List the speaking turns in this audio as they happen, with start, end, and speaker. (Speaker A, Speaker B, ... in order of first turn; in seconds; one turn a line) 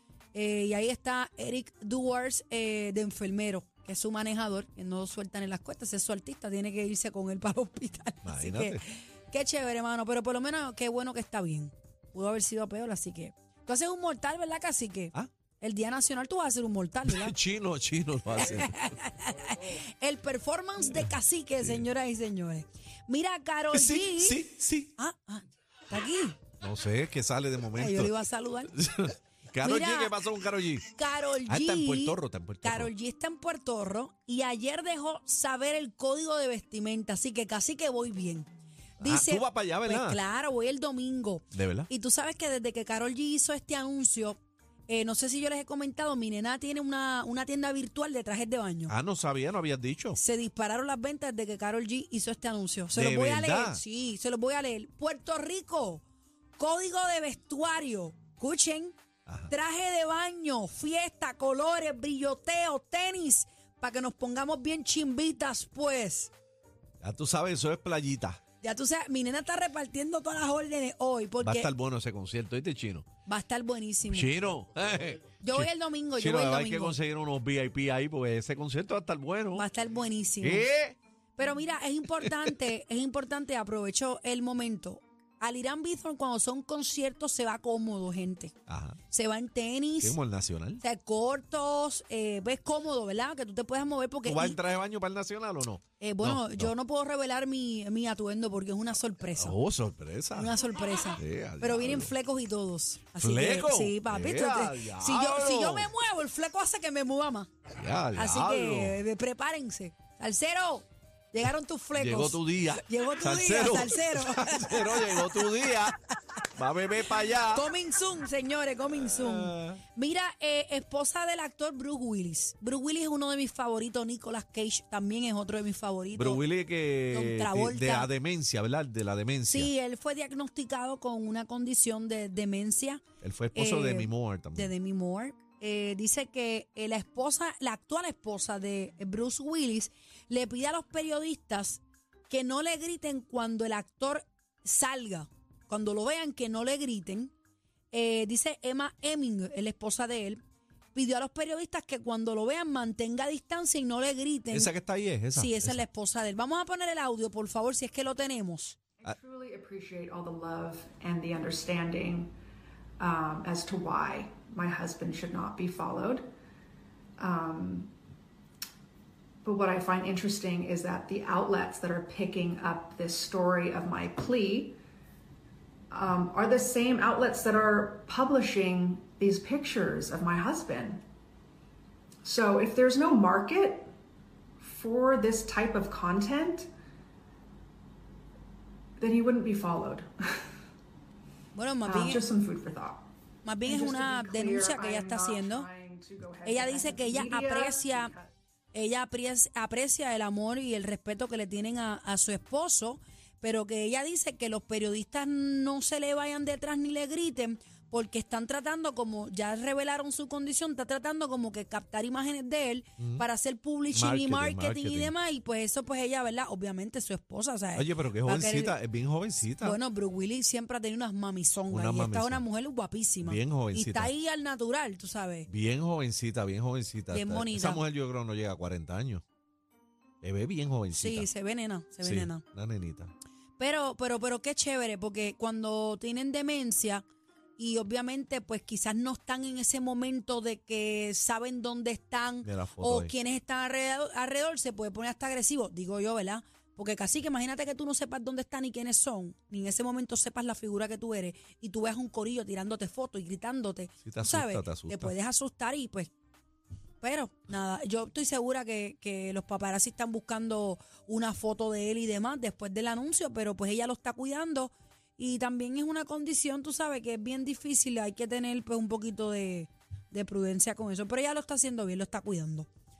Speaker A: 0.3-17.4
Speaker B: 8.2-8.8
Speaker B: 17.1-18.8
Speaker A: 18.3-26.4
Speaker B: 21.6-21.8
Speaker B: 23.7-24.9
Speaker B: 26.6-28.1
Speaker A: 27.7-28.7
Speaker B: 28.7-30.9
Speaker A: 29.6-30.1
Speaker A: 30.9-48.9
Speaker B: 31.4-32.9
Speaker B: 39.0-40.2
Speaker B: 41.5-41.9
Speaker B: 48.9-50.2
Speaker A: 50.1-56.0
Speaker B: 52.9-53.8
Speaker A: 56.6-59.0
Speaker B: 59.2-59.5
Speaker A: 59.5-66.3
Speaker B: 67.0-68.4
Speaker A: 68.6-71.7
Speaker B: 71.4-73.0
Speaker A: 73.2-74.5
Speaker B: 74.1-79.7
Speaker A: 75.4-77.0
Speaker A: 79.5-80.7
Speaker B: 80.4-81.0
Speaker A: 81.3-88.5
Speaker B: 82.2-82.5
Speaker B: 88.7-89.0
Speaker A: 89.1-90.2
Speaker B: 90.0-90.8
Speaker A: 90.8-94.6
Speaker B: 94.2-96.7
Speaker A: 96.0-99.6
Speaker B: 99.3-100.5
Speaker A: 100.3-107.5
Speaker B: 101.2-102.1
Speaker B: 103.2-105.9
Speaker B: 107.8-109.0
Speaker A: 108.1-116.1
Speaker B: 111.9-116.0
Speaker B: 116.5-117.7
Speaker A: 117.2-126.4
Speaker B: 118.9-119.8
Speaker B: 126.1-129.7
Speaker A: 127.1-128.1
Speaker A: 129.5-133.0
Speaker B: 133.2-134.7
Speaker A: 133.5-147.3
Speaker A: 147.9-150.4
Speaker A: 150.9-154.7
Speaker B: 154.5-155.8
Speaker A: 155.3-158.8
Speaker C: 159.0-162.3
Speaker C: 163.0-166.2
Speaker C: 167.2-167.9
Speaker C: 169.4-174.8
Speaker C: 175.9-181.0
Speaker C: 182.2-183.8
Speaker C: 184.6-186.7
Speaker C: 189.0-190.4
Speaker A: 191.5-192.2
Speaker C: 191.8-193.0
Speaker A: 193.4-195.7
Speaker C: 193.7-198.3
Speaker A: 196.4-198.1
Speaker A: 198.7-218.8
Speaker B: 213.0-213.2
Speaker B: 213.9-215.1
Speaker B: 217.7-219.8
Speaker A: 219.6-225.5
Speaker B: 221.7-222.4
Speaker B: 223.2-224.1
Speaker B: 225.5-229.2
Speaker A: 227.1-227.8
Speaker B: 230.2-231.3
Speaker A: 230.9-232.4
Speaker B: 232.0-233.1
Speaker A: 233.6-237.0
Speaker A: 237.6-256.1
Speaker B: 242.4-243.1
Speaker B: 254.0-255.1
Speaker A: 257.0-272.7